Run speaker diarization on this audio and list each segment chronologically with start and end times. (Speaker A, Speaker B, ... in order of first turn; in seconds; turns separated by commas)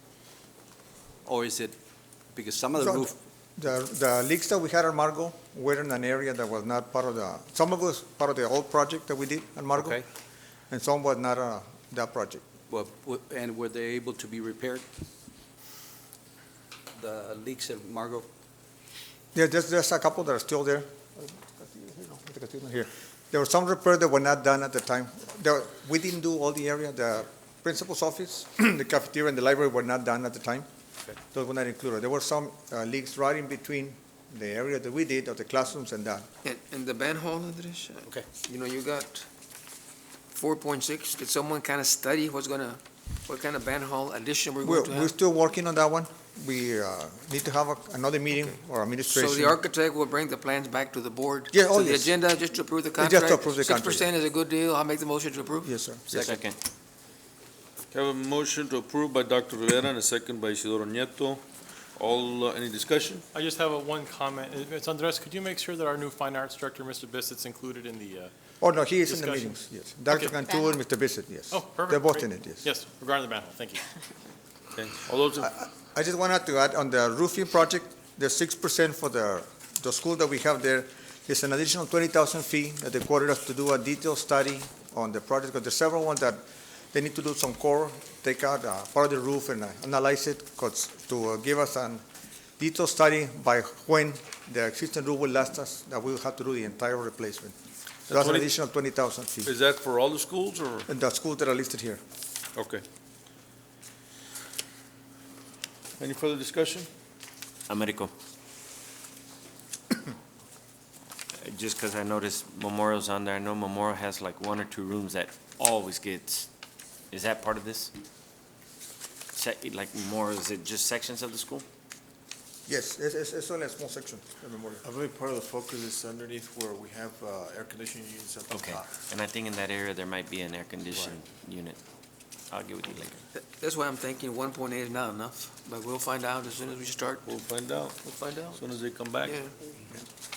Speaker A: 1.2-1.8, Speaker A: 2.3-3.1, Speaker B: 2.8-10.0, Speaker A: 9.8-10.0, Speaker B: 10.7-12.4, Speaker A: 12.7-14.8, Speaker A: 16.9-18.3, Speaker B: 19.3-30.7, Speaker B: 31.3-36.2, Speaker C: 36.4-39.3, Speaker C: 40.3-45.1, Speaker B: 44.6-49.6, Speaker C: 49.0-55.7, Speaker B: 51.5-52.1, Speaker B: 53.0-54.1, Speaker B: 55.6-56.3, Speaker A: 56.1-56.4, Speaker D: 56.2-56.6, Speaker E: 57.9-61.4, Speaker E: 62.0-63.2, Speaker F: 63.3-68.3, Speaker B: 68.6-72.7, Speaker F: 69.0-69.6, Speaker F: 70.1-70.6, Speaker F: 71.5-73.8, Speaker E: 74.8-75.5, Speaker B: 75.4-92.0, Speaker B: 92.6-97.5, Speaker E: 98.1-98.5, Speaker B: 98.1-99.5, Speaker E: 99.4-100.9, Speaker B: 100.9-102.0, Speaker E: 102.5-102.8, Speaker E: 106.0-106.9, Speaker D: 107.7-108.1, Speaker D: 111.4-116.5, Speaker D: 117.1-117.9, Speaker D: 119.3-121.6, Speaker B: 122.7-124.8, Speaker G: 124.8-128.7, Speaker D: 128.5-131.8, Speaker D: 132.5-133.2, Speaker C: 133.3-137.2, Speaker E: 137.2-138.0, Speaker C: 138.0-138.7, Speaker E: 138.5-139.4, Speaker C: 139.2-139.5